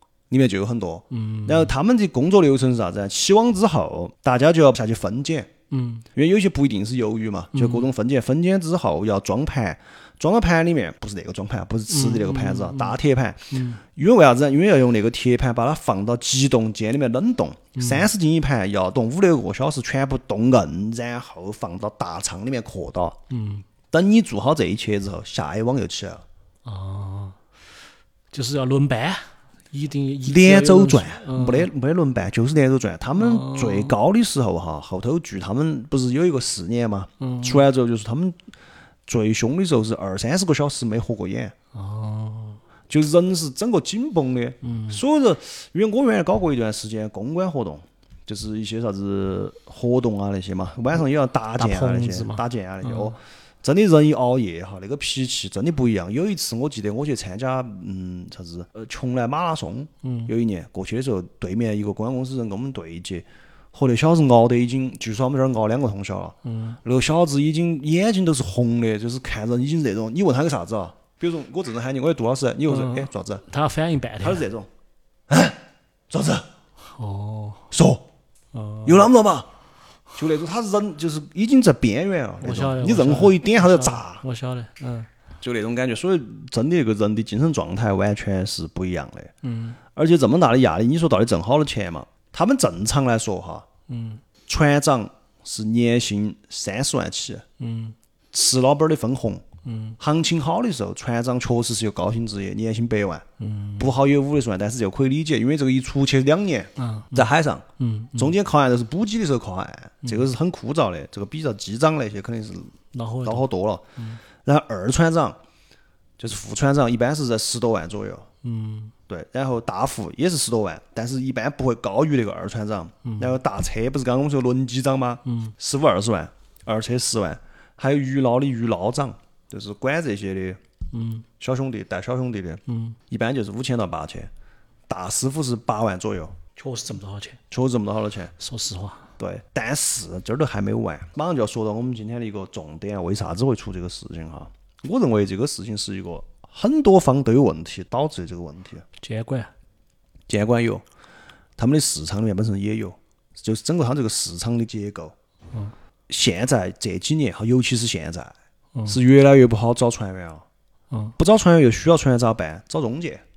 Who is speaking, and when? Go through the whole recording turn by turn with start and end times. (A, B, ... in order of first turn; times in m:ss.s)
0:00.3-0:05.5 A
0:01.1-0:01.7 B
0:05.7-0:06.1 B
0:06.2-0:23.2 A
0:07.5-0:07.9 B
0:11.9-0:13.0 B
0:13.5-0:13.8 B
0:17.8-0:18.1 B
0:23.3-0:23.7 B
0:23.9-0:26.2 A
0:26.6-0:27.4 B
0:28.3-0:31.7 B
0:30.2-0:38.4 A
0:33.2-0:34.0 B
0:37.2-0:37.7 B
0:39.1-0:41.5 A
0:41.7-0:42.6 B
0:42.9-1:13.4 A
0:44.6-0:45.0 B
0:51.6-0:53.2 B
1:00.0-1:00.3 B
1:06.4-1:06.8 B
1:12.7-1:14.5 B
1:14.2-1:14.7 A
1:15.3-1:16.5 A
1:16.8-1:17.7 B
1:17.7-1:18.0 A
1:18.5-1:19.1 B
1:18.8-1:19.5 A
1:20.2-1:24.2 A
1:22.4-1:25.1 B
1:25.4-1:29.3 A
1:29.4-1:29.8 B
1:30.0-1:33.7 A
1:33.9-1:34.2 B
1:34.5-1:37.4 A
1:37.6-1:38.0 B
1:38.3-1:39.5 A
1:39.6-1:40.0 B
1:40.0-1:43.2 A
1:43.4-1:44.0 B
1:43.8-1:52.7 A
1:46.8-1:48.3 B
1:52.9-1:54.2 B
1:53.2-1:55.4 A
1:56.2-1:58.3 A
1:58.4-1:58.9 B
1:59.1-2:10.6 A
2:03.0-2:03.4 B
2:05.3-2:05.5 B
2:10.9-2:11.3 B
2:11.4-2:14.3 A
2:12.7-2:13.0 B
2:14.9-2:16.4 A
2:16.6-2:17.4 B
2:17.5-2:18.3 A
2:18.4-2:19.1 B
2:19.2-2:28.8 A
2:29.0-2:29.5 B
2:30.3-2:30.8 A
2:31.6-2:35.1 A
2:36.1-2:38.4 A
2:38.9-2:40.5 A
2:40.9-2:41.2 B
2:41.2-2:43.2 A